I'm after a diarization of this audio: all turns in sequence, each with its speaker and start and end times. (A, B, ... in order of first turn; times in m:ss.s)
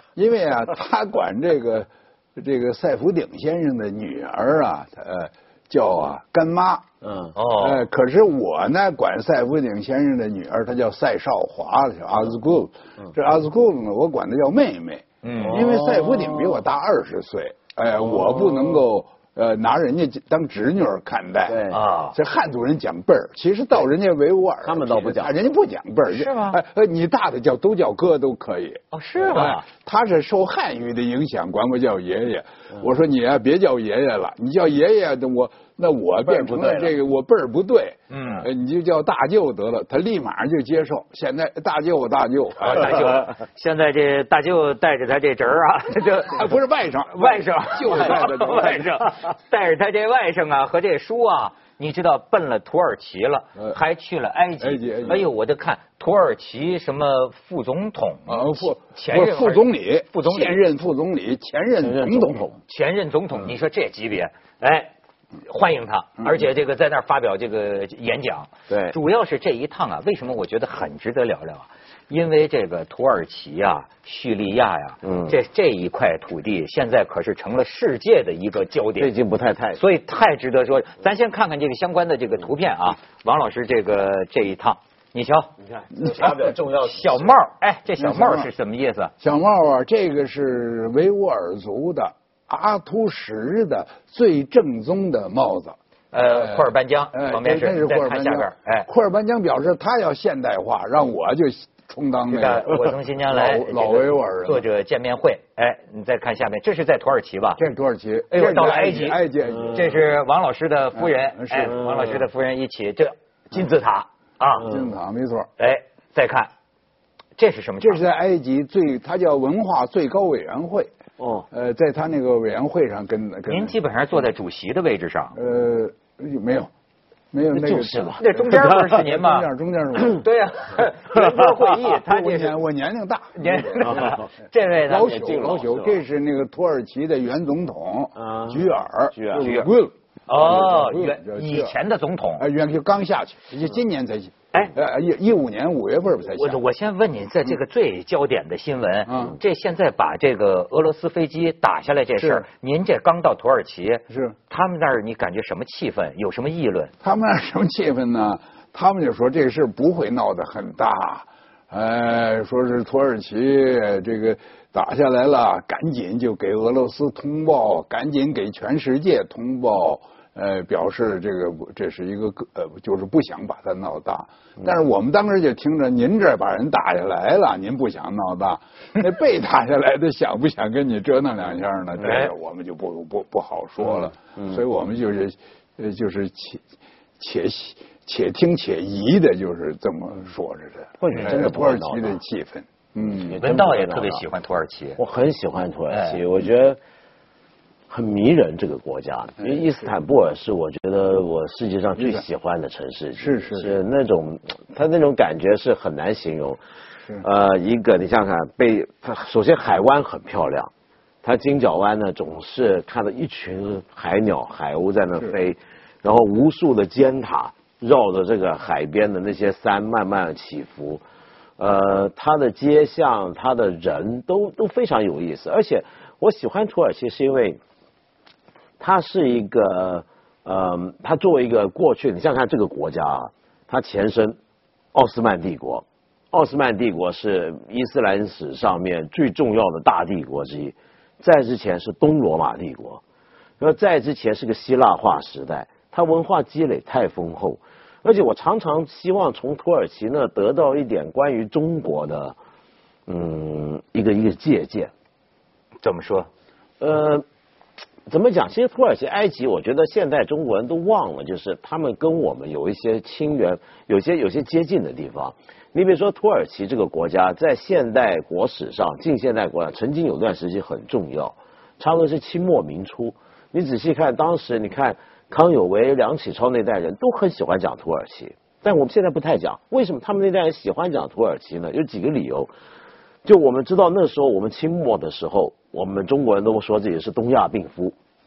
0:00.2-0:06.9 A
0:07.0-0:07.3 B
0:07.4-0:07.8 C
0:07.6-0:43.2 A
0:15.2-0:15.8 C
0:15.5-0:16.6 B
0:18.2-0:18.8 B
0:21.5-0:21.8 B
0:21.7-0:22.2 C
0:24.6-0:25.3 B
0:26.1-0:26.6 C
0:28.9-0:29.6 C
0:36.4-0:36.8 C
0:38.1-0:38.5 C
0:42.6-0:46.5 C
0:46.2-0:49.0 A
0:47.1-1:00.6 C
0:54.6-0:55.3 A
0:58.3-1:02.4 A
1:01.8-1:02.6 B
1:02.7-1:04.9 C
1:05.4-1:19.1 C
1:08.7-1:09.0 B
1:15.0-1:15.3 B
1:19.0-1:19.8 B
1:19.8-1:25.5 C
1:25.6-1:27.4 B
1:26.1-1:29.1 C
1:28.0-1:28.5 A
1:29.2-1:44.6 A
1:36.1-1:38.9 C
1:42.3-1:47.6 C
1:47.6-1:50.1 A
1:48.3-1:54.7 C
1:51.0-1:51.8 A
1:51.8-1:52.1 B
1:54.6-1:55.5 A
1:55.6-1:56.5 C
1:57.4-1:58.0 C
1:57.8-2:00.9 A
2:01.2-2:01.5 B
2:01.5-2:03.8 A
2:03.5-2:05.4 C
2:05.3-2:06.7 A
2:07.3-2:10.2 A
2:07.5-2:08.8 B
2:08.2-2:09.5 C
2:10.0-2:12.5 C
2:11.1-2:11.6 B
2:11.7-2:14.2 A
2:13.4-2:15.6 C
2:13.8-2:14.2 B
2:14.9-2:21.7 A
2:15.1-2:16.0 B
2:18.2-2:19.5 B
2:19.3-2:19.7 C
2:20.3-2:22.4 C
2:22.4-2:26.6 A
2:26.4-2:36.9 C
2:29.1-2:29.4 A
2:32.2-2:32.5 A
2:34.1-2:34.4 A
2:37.0-3:06.6 A
3:02.0-3:02.3 C
3:07.2-3:13.4 A
3:11.0-3:12.2 B
3:13.1-3:14.2 B
3:13.4-3:15.0 C
3:15.0-3:16.8 B
3:15.9-3:16.2 C
3:17.9-3:26.6 B
3:22.0-3:22.2 A
3:23.2-3:23.8 A
3:27.2-3:30.7 B
3:31.2-3:41.0 B
3:41.6-3:47.6 B
3:48.8-3:54.4 B
3:54.9-4:03.0 B
4:03.6-4:12.4 B
4:13.1-4:14.9 B
4:15.8-4:16.3 C
4:16.8-4:17.2 B
4:18.1-4:42.5 B
4:43.2-4:48.0 B